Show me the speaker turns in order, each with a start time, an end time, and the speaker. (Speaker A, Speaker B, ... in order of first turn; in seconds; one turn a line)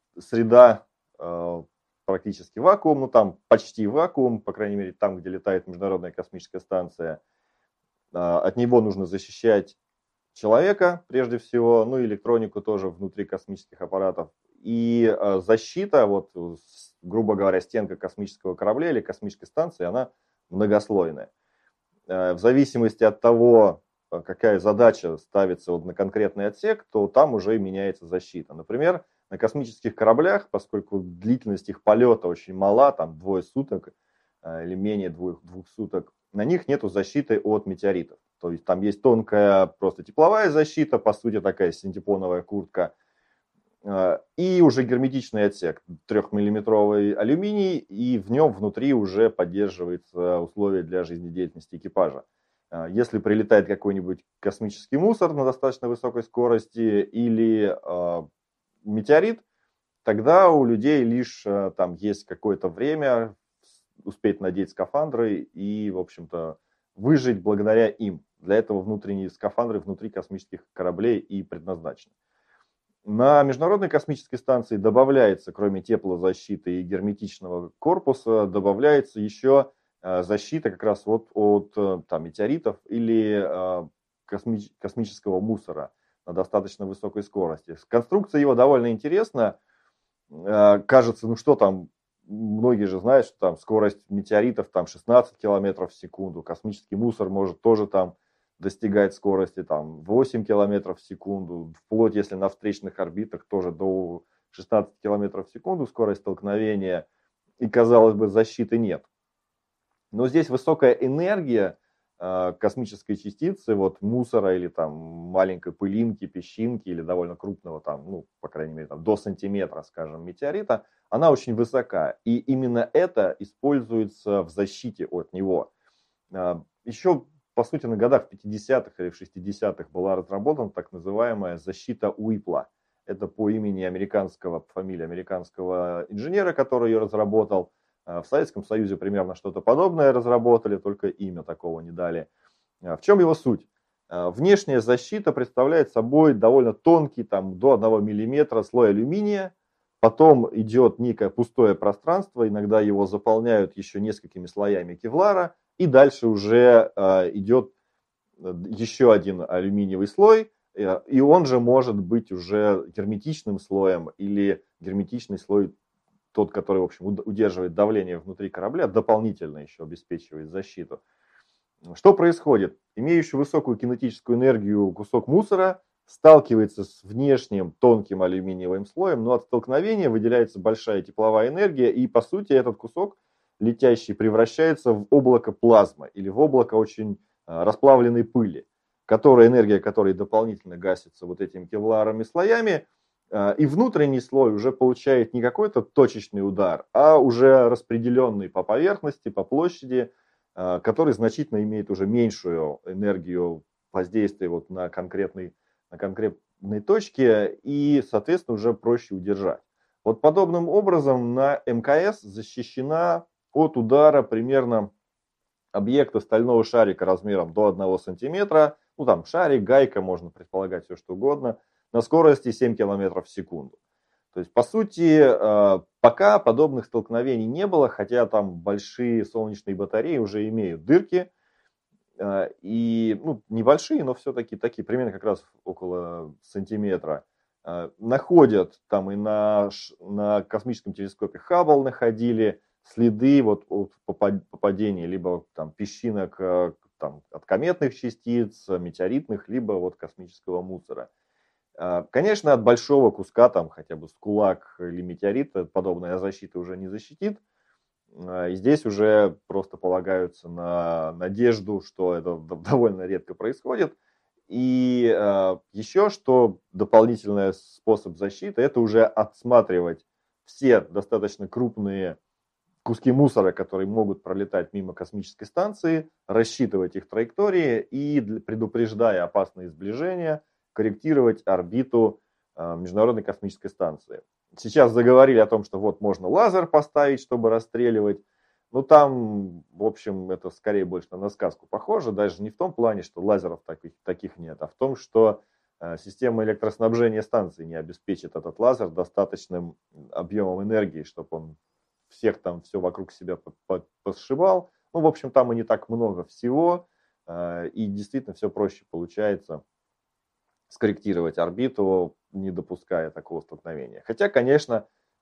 Speaker A: 0.2-7.2
Speaker A: 8.1-9.8
Speaker A: 10.3-21.3
Speaker A: 22.1-33.9
Speaker A: 34.4-42.9
Speaker A: 43.8-58.3
Speaker A: 58.8-59.4
Speaker A: 60.0-63.4
Speaker A: 64.0-72.1
Speaker A: 73.0-89.6
Speaker A: 90.3-107.1
Speaker A: 107.6-109.1
Speaker A: 110.1-125.7
Speaker A: 126.3-142.3
Speaker A: 142.8-157.7
Speaker A: 158.4-165.7
Speaker A: 166.3-171.0
Speaker A: 171.9-214.9
Speaker A: 215.7-223.8
Speaker A: 224.3-231.3
Speaker A: 232.2-251.1
Speaker A: 251.8-257.4
Speaker A: 258.1-264.0
Speaker A: 264.5-272.2
Speaker A: 272.9-301.6
Speaker A: 302.1-309.6
Speaker A: 310.7-314.9